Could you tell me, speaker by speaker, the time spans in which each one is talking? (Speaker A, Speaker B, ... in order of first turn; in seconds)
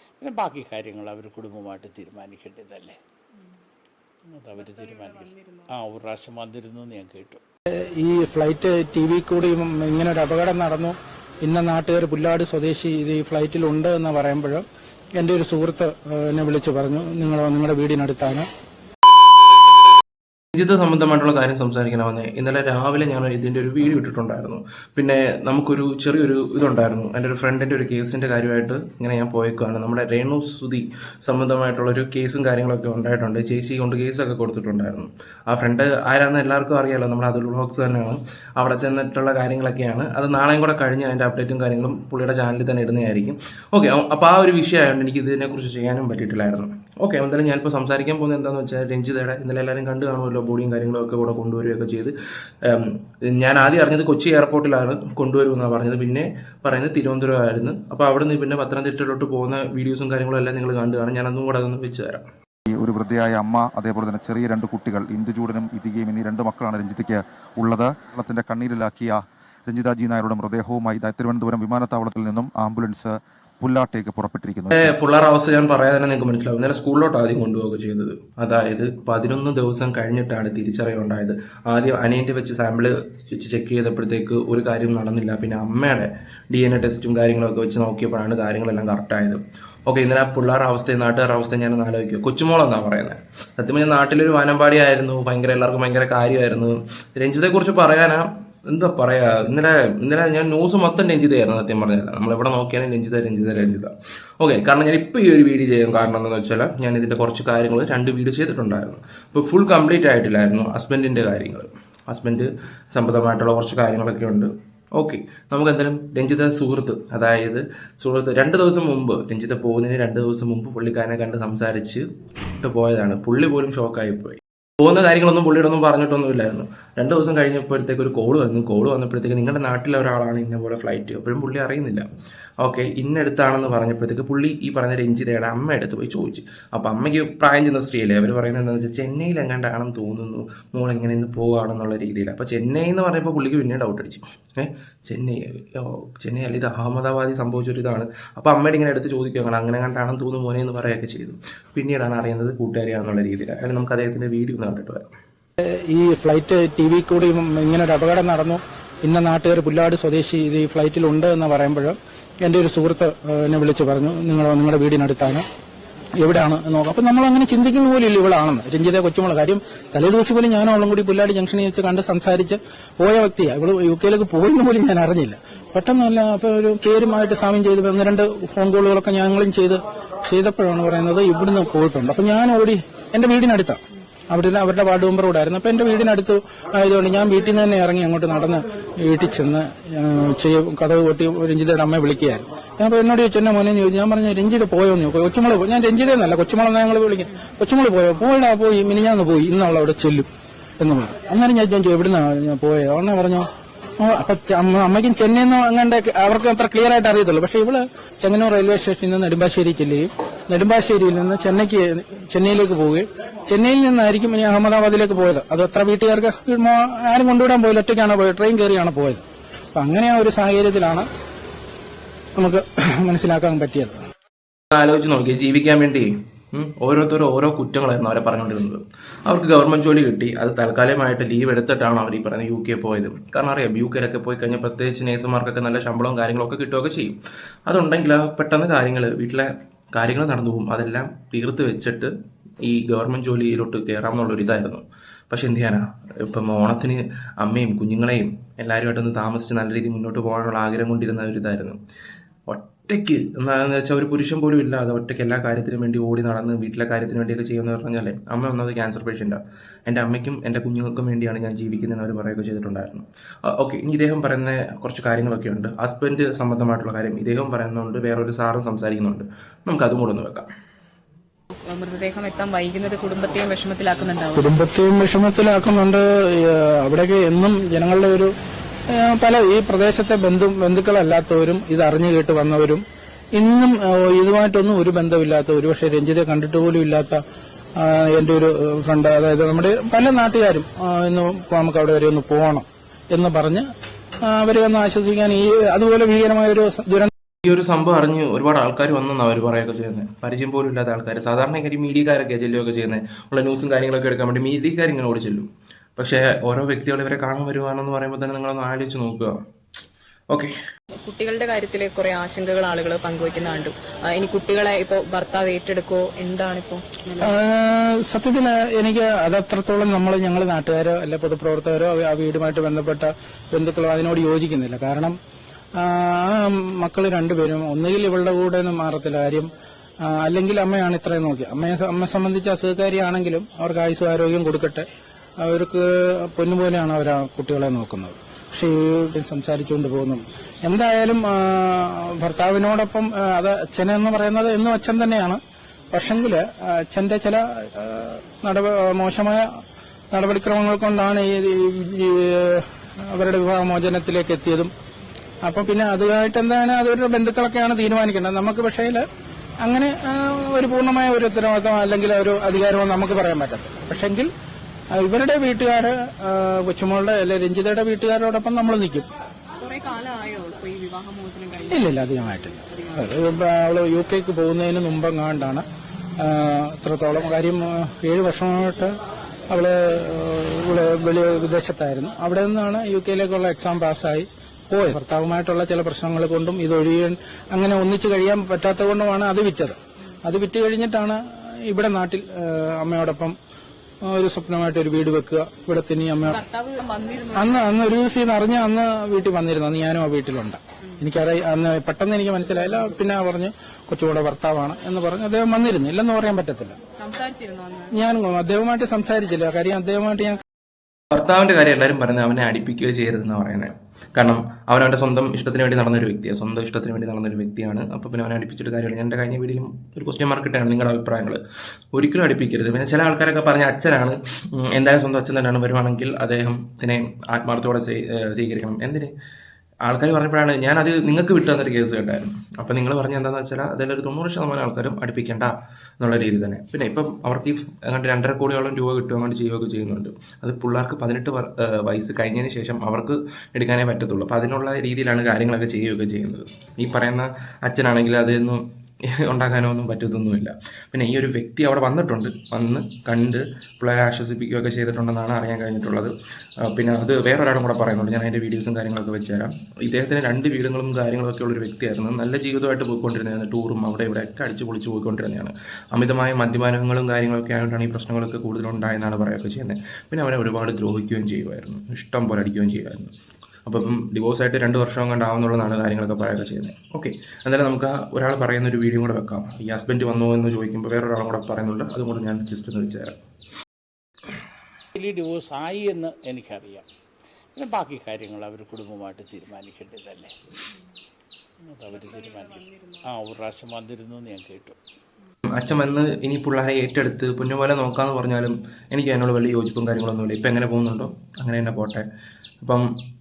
Speaker A: 0.2-3.0, 4.3-7.4, 484.9-486.9, 487.6-490.3, 491.6-494.8
Speaker B: 7.9-14.6, 15.2-18.5, 155.6-165.4, 166.2-200.3, 200.8-203.5, 204.0-219.2, 219.8-221.1, 222.4-223.9, 274.4-278.3, 278.9-282.8, 283.4-287.2, 287.8-293.6, 294.2-297.1, 317.2-325.2, 325.8-329.5, 330.1-334.9, 335.4-345.4, 345.9-349.5, 350.1-354.7, 355.4-359.1, 359.6-364.3, 364.9-369.1, 371.7-375.6, 376.2-378.9, 379.5-393.4, 394.1-396.4, 397.3-406.8, 407.9-410.4
Speaker C: 20.5-62.3, 74.7-122.0, 122.6-132.1, 132.6-155.1, 224.7-242.1, 242.6-251.8, 252.5-270.5, 297.4-309.3, 411.1-421.4, 421.9-429.1, 429.9-448.6, 449.2-456.1, 456.6-473.1, 473.6-483.1, 495.5-502.1, 502.6-502.9
Speaker D: 62.7-74.9
Speaker E: 271.5-274.5, 311.0-317.3, 369.6-371.9, 396.3-397.6, 407.0-407.9